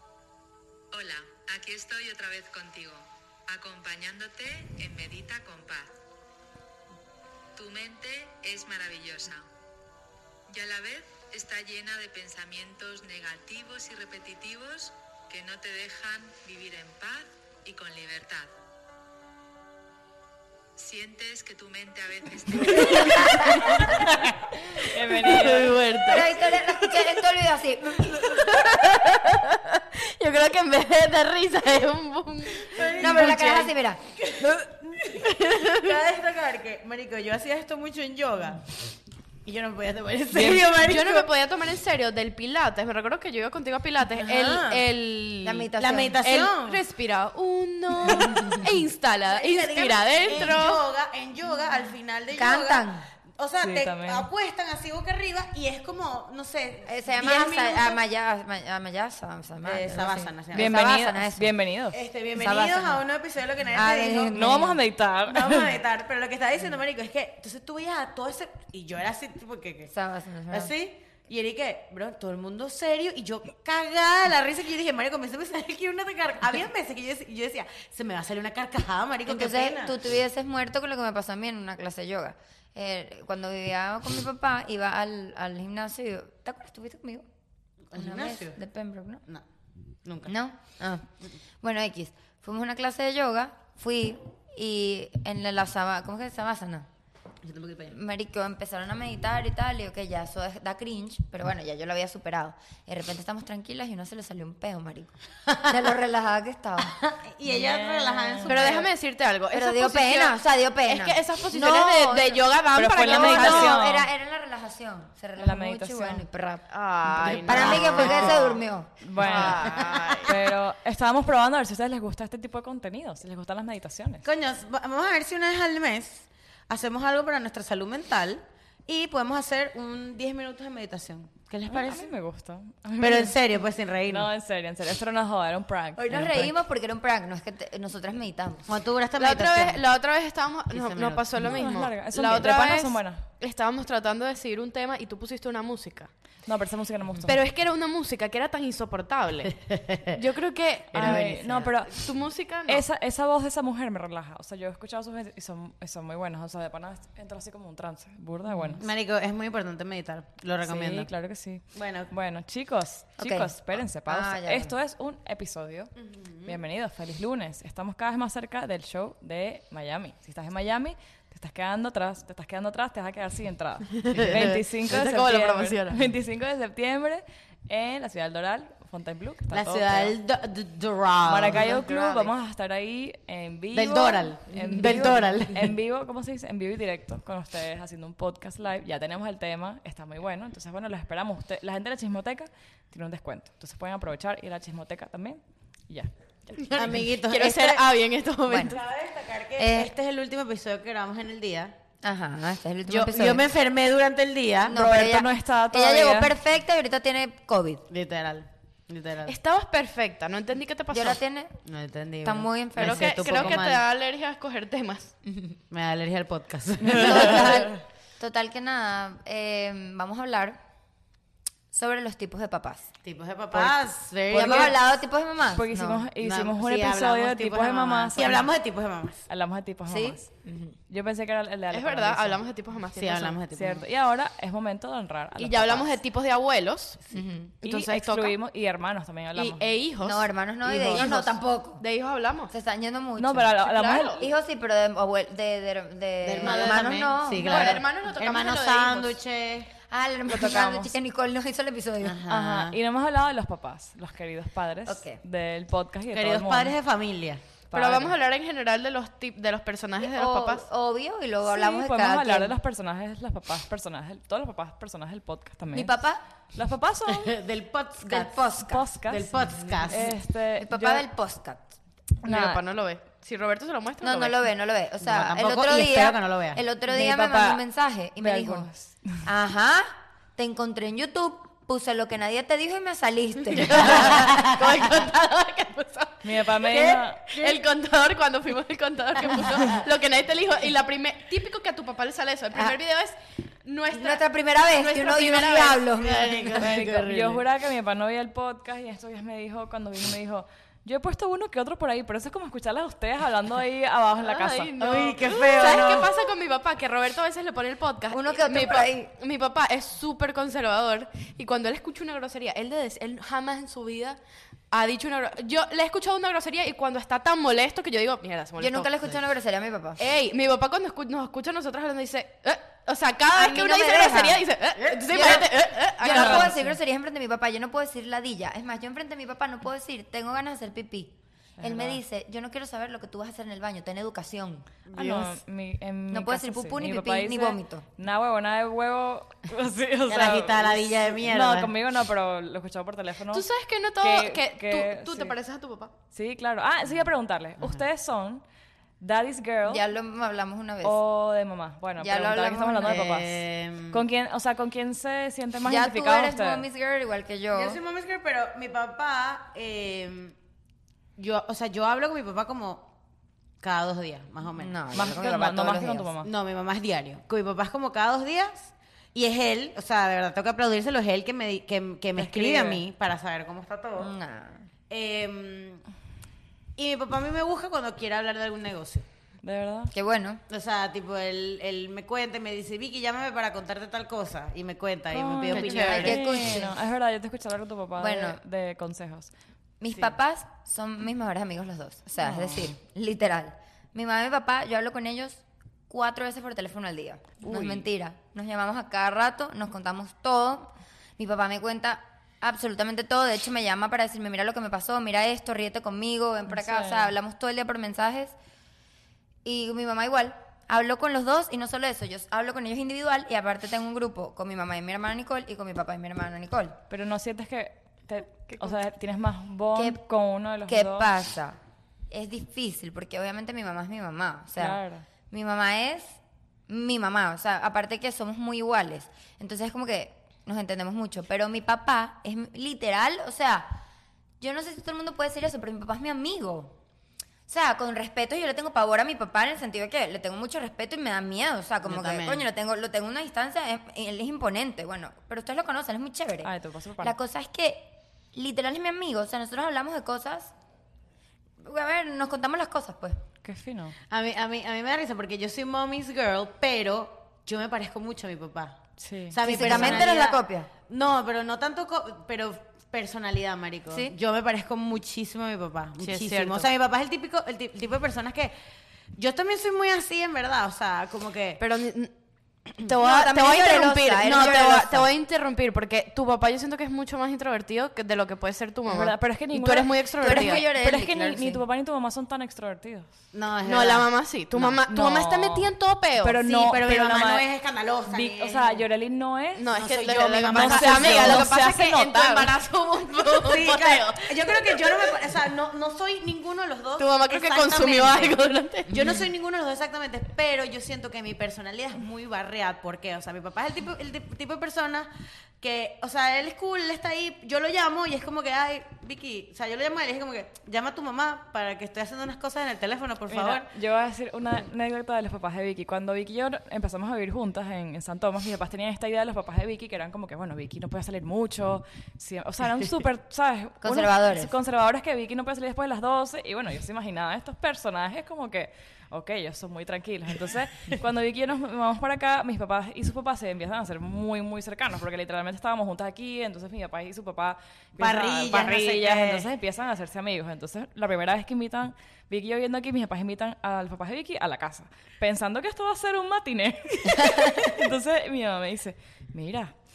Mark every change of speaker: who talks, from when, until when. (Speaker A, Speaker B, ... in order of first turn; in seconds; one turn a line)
Speaker A: 0.9-6.0
Speaker A: 7.5-9.5
Speaker A: 10.5-18.5
Speaker A: 20.8-24.1
Speaker B: 23.3-23.9
Speaker C: 24.6-25.9
Speaker B: 24.8-27.2
Speaker D: 26.0-28.1
Speaker B: 27.9-33.7
Speaker E: 32.6-33.7
Speaker D: 33.0-34.0
Speaker E: 34.2-35.2
Speaker B: 35.1-36.0
Speaker E: 35.8-38.7
Speaker E: 39.5-41.3
Speaker B: 40.3-45.7
Speaker E: 44.2-44.9
Speaker D: 45.4-46.2
Speaker E: 45.8-46.8
Speaker B: 46.2-50.8
Speaker E: 48.1-48.5
Speaker E: 49.3-58.0
Speaker D: 52.4-53.0
Speaker C: 53.6-54.3
Speaker D: 56.9-61.5
Speaker E: 59.6-60.7
Speaker C: 60.5-62.0
Speaker E: 61.9-64.5
Speaker D: 62.4-63.0
Speaker D: 63.7-64.8
Speaker C: 64.3-65.8
Speaker E: 65.3-69.9
Speaker D: 69.9-70.7
Speaker E: 70.5-80.0
Speaker D: 79.3-87.3
Speaker E: 87.9-88.6
Speaker D: 87.9-89.2
Speaker E: 90.0-90.3
Speaker D: 90.3-91.1
Speaker D: 91.6-96.9
Speaker E: 97.4-98.0
Speaker D: 97.9-107.0
Speaker E: 106.9-108.8
Speaker C: 107.5-108.7
Speaker B: 108.5-113.8
Speaker D: 109.5-116.7
Speaker C: 112.8-114.1
Speaker C: 115.4-116.2
Speaker B: 116.7-118.5
Speaker E: 117.2-118.6
Speaker D: 117.3-118.9
Speaker C: 117.5-118.0
Speaker C: 119.0-124.2
Speaker B: 119.2-120.4
Speaker E: 119.2-120.2
Speaker E: 124.2-132.1
Speaker C: 131.7-133.4
Speaker E: 133.0-134.3
Speaker C: 134.1-136.5
Speaker D: 136.0-138.7
Speaker E: 138.7-139.8
Speaker B: 139.2-146.1
Speaker E: 140.7-141.8
Speaker C: 141.4-143.2
Speaker C: 146.5-147.4
Speaker B: 147.3-152.8
Speaker E: 149.7-150.1
Speaker C: 150.9-152.1
Speaker C: 152.7-158.8
Speaker E: 158.8-161.1
Speaker C: 160.6-165.9
Speaker E: 161.7-162.1
Speaker D: 163.2-164.8
Speaker E: 166.0-166.6
Speaker C: 166.4-180.2
Speaker B: 174.0-176.1
Speaker E: 179.5-181.7
Speaker C: 181.3-196.8
Speaker B: 181.6-182.3
Speaker E: 183.7-185.8
Speaker B: 196.6-198.8
Speaker E: 196.7-197.8
Speaker D: 198.5-198.8
Speaker E: 198.6-201.7
Speaker D: 199.6-199.9
Speaker D: 202.0-203.4
Speaker E: 202.9-204.8
Speaker D: 204.7-207.8
Speaker C: 204.7-206.3
Speaker E: 207.9-209.4
Speaker B: 209.3-211.2
Speaker D: 210.9-211.6
Speaker E: 211.7-213.8
Speaker D: 212.2-213.6
Speaker B: 212.8-215.1
Speaker E: 215.7-217.7
Speaker D: 216.8-220.6
Speaker D: 221.7-222.9
Speaker E: 223.0-224.8
Speaker D: 224.3-226.1
Speaker C: 225.5-228.5
Speaker E: 226.2-229.3
Speaker C: 229.3-230.3
Speaker D: 229.9-230.8
Speaker C: 230.9-232.4
Speaker B: 231.7-233.4
Speaker E: 232.9-233.8
Speaker C: 233.5-236.0
Speaker B: 235.4-237.1
Speaker D: 237.1-237.5
Speaker B: 237.6-238.3
Speaker C: 237.6-239.7
Speaker B: 239.3-240.3
Speaker D: 240.0-241.8
Speaker E: 240.7-241.1
Speaker B: 240.9-242.5
Speaker D: 242.5-243.5
Speaker C: 243.2-244.3
Speaker B: 243.6-244.3
Speaker D: 244.2-247.8
Speaker E: 246.2-249.7
Speaker B: 246.4-249.1
Speaker D: 249.9-252.7
Speaker C: 250.3-250.9
Speaker E: 252.0-252.8
Speaker C: 252.3-256.8
Speaker D: 254.9-255.2
Speaker E: 256.1-257.4
Speaker C: 257.7-258.1
Speaker B: 257.7-260.7
Speaker D: 260.0-262.5
Speaker C: 261.4-266.0
Speaker D: 265.7-266.2
Speaker C: 266.5-267.4
Speaker E: 267.1-268.4
Speaker D: 268.0-268.9
Speaker C: 268.6-269.3
Speaker E: 269.1-270.2
Speaker C: 269.9-271.0
Speaker D: 270.6-271.7
Speaker C: 272.2-272.6
Speaker B: 272.2-274.4
Speaker D: 274.0-278.7
Speaker E: 275.0-276.6
Speaker C: 276.9-277.6
Speaker C: 278.2-279.2
Speaker D: 279.2-284.3
Speaker B: 283.5-286.3
Speaker E: 283.9-284.5
Speaker C: 286.2-287.4
Speaker E: 286.7-287.6
Speaker B: 287.3-295.9
Speaker D: 293.9-296.6
Speaker E: 296.0-297.4
Speaker C: 296.6-305.0
Speaker B: 304.2-314.2
Speaker E: 304.8-306.1
Speaker D: 308.1-309.1
Speaker B: 314.7-318.9
Speaker D: 318.6-320.0
Speaker B: 320.0-326.5
Speaker D: 323.3-324.5
Speaker E: 324.8-325.4
Speaker D: 325.1-334.7
Speaker C: 326.0-326.8
Speaker C: 331.6-332.0
Speaker E: 334.9-335.2
Speaker C: 334.9-343.5
Speaker D: 336.1-337.9
Speaker E: 340.1-341.7
Speaker B: 343.3-345.9
Speaker C: 344.0-345.4
Speaker C: 346.1-348.4
Speaker C: 349.0-349.8
Speaker D: 349.6-351.0
Speaker C: 350.8-356.6
Speaker D: 352.0-353.1
Speaker E: 352.9-354.0
Speaker D: 355.6-357.8
Speaker E: 357.5-360.4
Speaker E: 361.2-362.9
Speaker E: 363.6-365.1
Speaker D: 364.6-366.1
Speaker C: 364.9-366.3
Speaker E: 366.2-374.1
Speaker C: 372.2-372.8
Speaker D: 374.0-374.7
Speaker E: 374.9-375.8
Speaker E: 376.8-379.1
Speaker C: 379.4-379.9
Speaker D: 379.9-380.4
Speaker E: 380.5-386.2
Speaker C: 385.1-389.3
Speaker B: 385.5-386.1
Speaker D: 385.9-386.8
Speaker D: 388.0-388.4
Speaker D: 389.8-408.4
Speaker C: 392.2-392.6
Speaker C: 397.4-397.9
Speaker C: 406.5-407.1
Speaker D: 409.4-416.8
Speaker C: 416.9-421.1
Speaker D: 419.8-420.0
Speaker D: 420.7-421.6
Speaker D: 422.1-433.8
Speaker C: 424.6-425.0
Speaker D: 434.4-436.7
Speaker D: 437.5-450.5
Speaker E: 441.8-442.4
Speaker C: 446.4-447.1
Speaker D: 451.6-453.2
Speaker C: 453.4-454.0
Speaker E: 454.1-468.5
Speaker C: 459.0-460.1
Speaker D: 459.4-460.7
Speaker B: 466.0-466.7
Speaker E: 469.1-471.6
Speaker B: 471.6-472.1
Speaker B: 472.8-480.6
Speaker D: 473.0-475.1
Speaker C: 478.9-483.1
Speaker D: 480.2-481.6
Speaker E: 483.3-484.8
Speaker B: 483.6-486.4
Speaker C: 484.9-487.4
Speaker E: 486.5-488.9
Speaker C: 488.1-489.7
Speaker B: 489.6-495.2
Speaker E: 489.7-491.5
Speaker C: 490.5-492.5
Speaker E: 493.1-498.4
Speaker B: 497.0-499.0
Speaker E: 498.9-505.1
Speaker E: 505.6-513.7
Speaker C: 513.3-549.7
Speaker D: 523.8-524.5
Speaker E: 538.0-539.5